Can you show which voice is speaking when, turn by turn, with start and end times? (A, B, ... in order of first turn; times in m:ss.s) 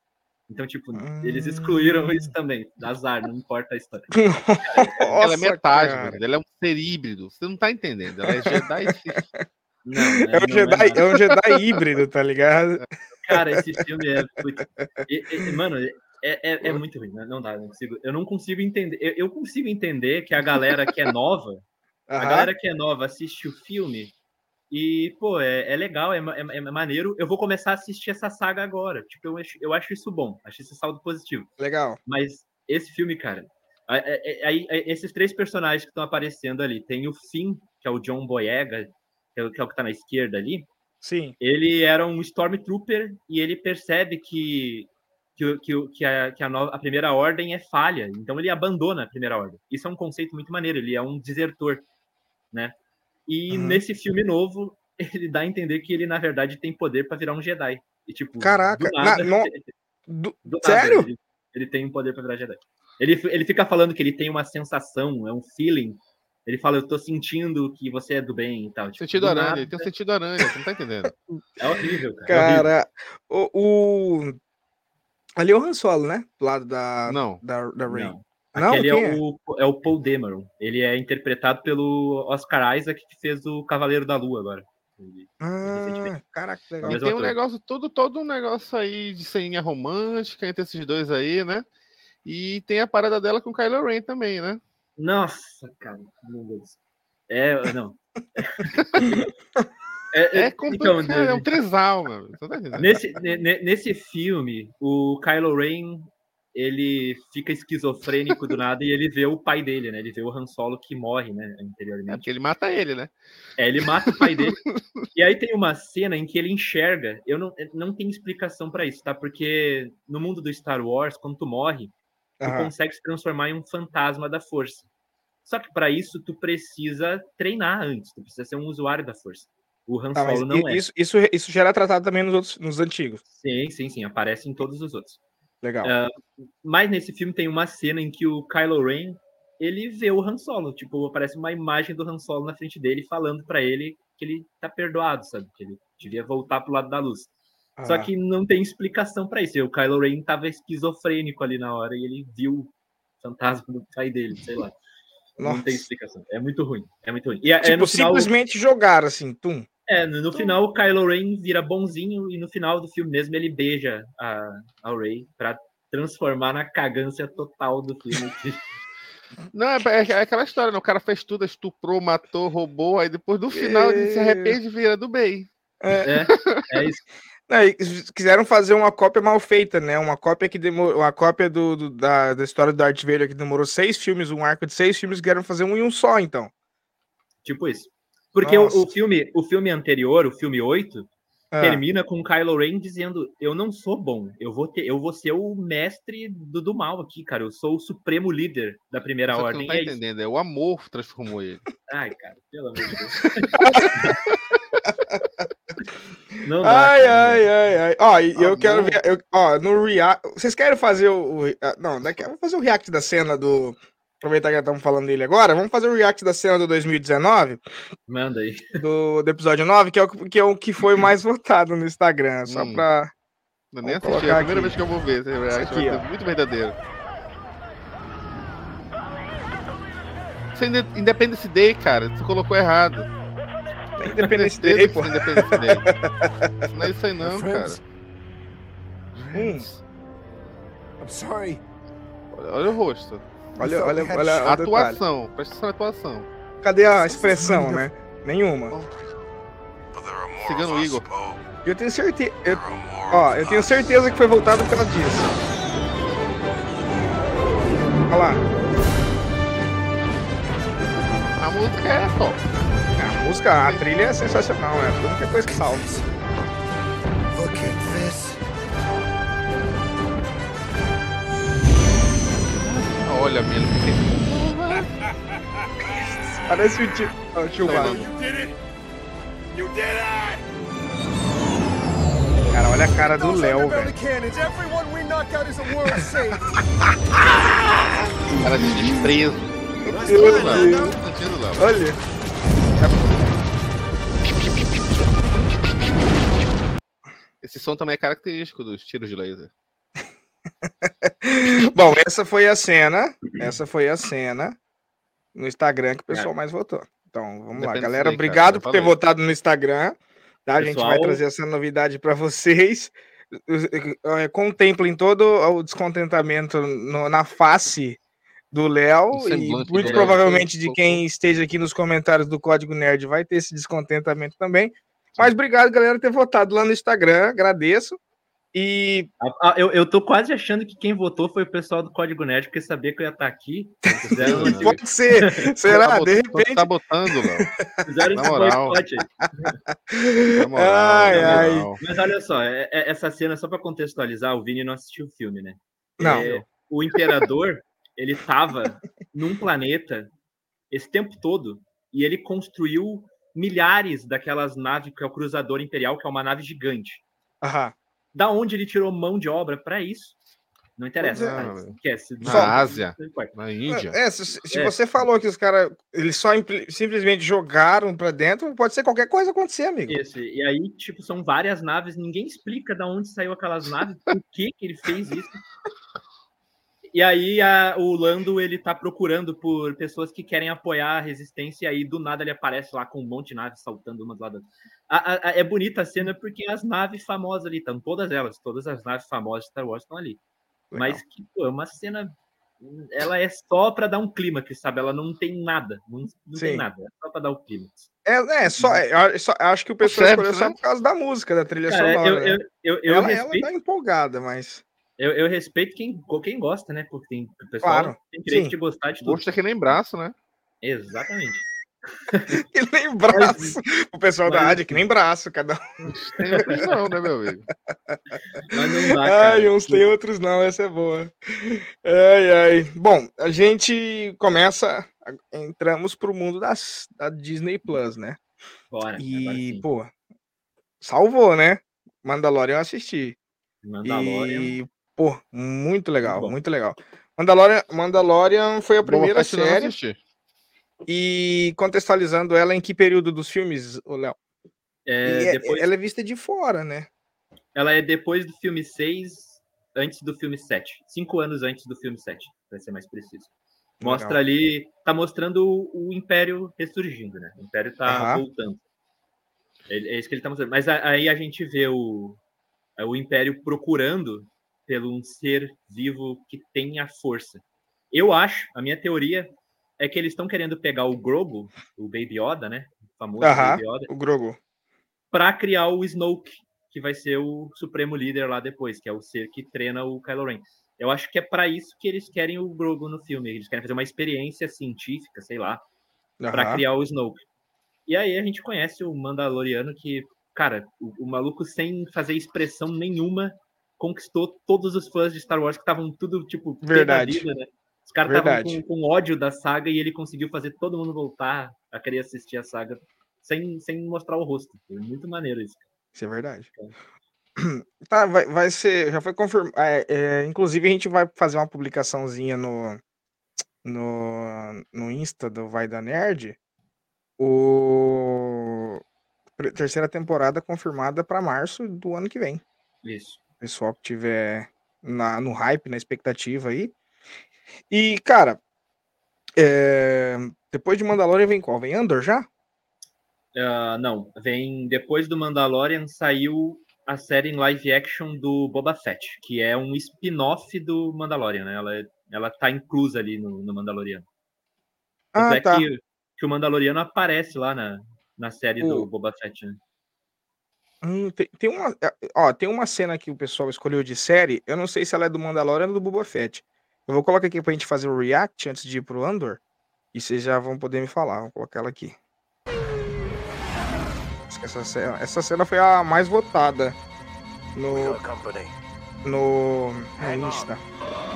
0:00.5-0:05.2 A
0:01.0-0:02.3 B
0:04.2-0:06.2 B
0:05.2-0:09.3 C
0:08.3-0:09.4 B
0:09.8-0:11.2 A
0:10.3-0:12.8 B
0:13.2-0:21.6 A
0:22.1-0:22.5 B
0:22.2-0:24.1 A
0:24.7-0:31.5 A
0:31.6-0:32.0 B
0:32.1-0:40.7 A
0:41.0-0:41.4 B
0:41.4-0:51.8 A
0:53.3-0:59.7 A
0:53.5-0:53.8 B
0:58.4-0:59.5 B
1:00.1-1:01.1 B
1:00.4-1:09.8 A
1:09.0-1:11.2 C
1:11.6-1:12.6 A
1:12.3-1:14.4 B
1:12.3-1:12.7 C
1:15.4-1:19.2 B
1:17.1-1:17.4 C
1:17.9-1:26.1 A
1:25.4-1:27.0 B
1:26.8-1:27.4 A
1:26.8-1:31.6 C
1:32.2-1:34.6 C
1:35.0-1:36.8 A
1:37.3-1:39.3 A
1:40.1-1:41.5 A
1:40.3-1:42.9 C
1:42.8-1:52.3 A
1:52.1-1:53.1 C
1:53.6-1:54.6 A
1:53.8-1:55.1 C
1:55.1-2:01.9 A
2:02.4-2:02.7 B
2:02.4-2:04.9 A
2:05.4-2:10.8 A
2:10.2-2:13.2 B
2:13.3-2:15.2 A
2:15.6-2:15.9 B
2:15.8-2:27.3 A
2:27.8-2:28.1 B
2:27.8-2:34.8 A
2:35.4-2:35.8 B
2:35.4-2:38.3 A
2:37.6-2:39.7 B
2:39.9-2:48.6 A
2:49.5-2:56.7 C
2:53.5-2:54.6 B
2:55.8-2:56.1 B
2:56.0-2:57.0 A
2:57.5-3:06.5 B
3:07.4-3:20.0 A
3:08.4-3:08.8 B
3:11.5-3:11.8 B
3:19.3-3:21.6 C
3:21.9-3:24.2 A
3:23.4-3:24.6 C
3:23.6-3:23.9 B
3:26.4-3:27.5 A
3:26.6-3:37.6 B
3:28.4-3:29.0 A
3:38.1-3:38.8 A
3:38.8-3:43.1 B
3:42.5-3:42.9 C
3:43.7-3:46.8 C
3:43.8-3:44.8 B
3:45.5-3:46.0 B
3:50.5-3:53.1 C
3:54.0-3:56.5 B
3:54.4-3:55.9 C
3:56.7-3:57.8 C
3:57.2-3:57.8 D
3:59.3-3:59.7 B
3:59.4-3:59.8 C
4:01.0-4:01.6 D
4:02.3-4:03.2 C
4:03.6-4:05.0 B
4:03.6-4:04.4 D
4:04.1-4:06.3 C
4:06.6-4:08.8 B
4:07.3-4:07.8 D
4:10.4-4:11.1 C
4:11.6-4:15.3 B
4:18.1-4:18.4 B
4:21.4-4:22.4 C
4:23.0-4:26.1 B
4:23.6-4:23.9 C
4:27.4-4:28.4 D
4:32.5-4:34.9 C
4:36.5-4:38.1 B
4:37.7-4:38.0 C
4:37.7-4:38.5 D
4:39.6-4:40.4 D
4:42.5-4:44.0 B
4:43.1-4:46.5 D
4:47.7-4:49.0 B
4:48.3-4:51.6 C
4:49.8-4:51.0 D
4:49.9-4:51.0 B
4:51.6-4:52.0 B
4:52.8-4:53.2 B
4:57.4-4:59.5 C
5:00.8-5:04.6 B
5:05.4-5:18.0 B
5:07.6-5:09.0 C
5:10.6-5:11.2 A
5:18.5-5:28.0 B
5:19.1-5:21.0 C
5:19.8-5:20.2 A
5:28.5-5:29.1 B
5:29.2-5:36.1 A
5:33.9-5:37.8 B
5:34.2-5:34.8 C
5:35.8-5:37.5 C
5:37.8-5:39.5 A
5:38.2-5:38.8 C
5:39.2-5:41.7 B
5:40.3-5:41.8 C
5:41.1-5:50.1 A
5:46.0-5:46.3 B
5:46.1-5:46.4 C
5:50.7-5:57.0 A
5:57.4-5:57.8 B
5:58.1-6:00.2 A
6:00.8-6:03.3 A
6:01.0-6:01.6 B
6:01.1-6:04.0 C
6:02.3-6:02.6 B
6:03.7-6:10.0 B
6:04.5-6:04.8 A
6:09.9-6:15.4 A
6:16.9-6:30.2 A
6:30.7-6:31.0 B
6:30.8-6:37.9 A
6:36.4-6:36.6 B
6:38.1-6:44.6 B
6:38.6-6:38.8 A
6:39.8-6:40.6 C
6:41.7-6:43.5 A
6:45.0-6:49.3 A
6:47.6-6:48.5 B
6:49.0-6:50.1 C
6:50.6-6:51.5 A
6:52.1-6:52.4 A
6:52.3-6:56.5 B
6:53.1-6:53.6 A
6:54.3-6:54.8 A
6:55.9-6:57.5 C
6:56.3-6:56.6 A
6:57.7-7:08.2 B
6:58.5-6:59.8 A
7:08.7-7:09.7 A
7:09.0-7:09.9 B
7:10.8-7:13.2 B
7:13.6-7:14.6 A
7:13.8-7:19.8 B
7:16.0-7:16.3 A
7:18.8-7:20.0 C
7:20.9-7:24.2 B
7:24.9-7:25.7 A
7:25.0-7:26.9 B
7:27.6-7:33.3 A
7:33.8-7:34.2 B
7:33.8-7:38.6 A
7:37.9-7:38.2 B
7:39.7-7:42.2 A
7:42.8-7:53.9 A
7:53.2-7:54.4 B
7:55.1-8:05.6 A
8:06.2-8:06.6 B
8:06.3-8:07.2 A
8:07.9-8:25.7 A
8:16.6-8:17.2 B
8:18.1-8:18.6 B
8:26.0-8:26.5 B
8:27.4-8:32.8 B
8:33.6-8:36.4 B
8:37.2-8:38.8 B
8:39.4-8:42.4 B
8:42.8-8:43.2 A
8:43.4-8:46.7 B
8:47.7-8:48.4 B
8:49.4-8:52.3 B
8:53.4-9:04.0 A
9:05.2-9:05.6 B
9:05.2-9:09.6 A
9:08.6-9:08.9 B
9:10.8-9:19.4 B
9:19.9-9:22.0 B
9:24.3-9:26.8 B
9:27.6-9:28.0 B
9:28.0-9:28.5 D
9:29.0-9:30.6 B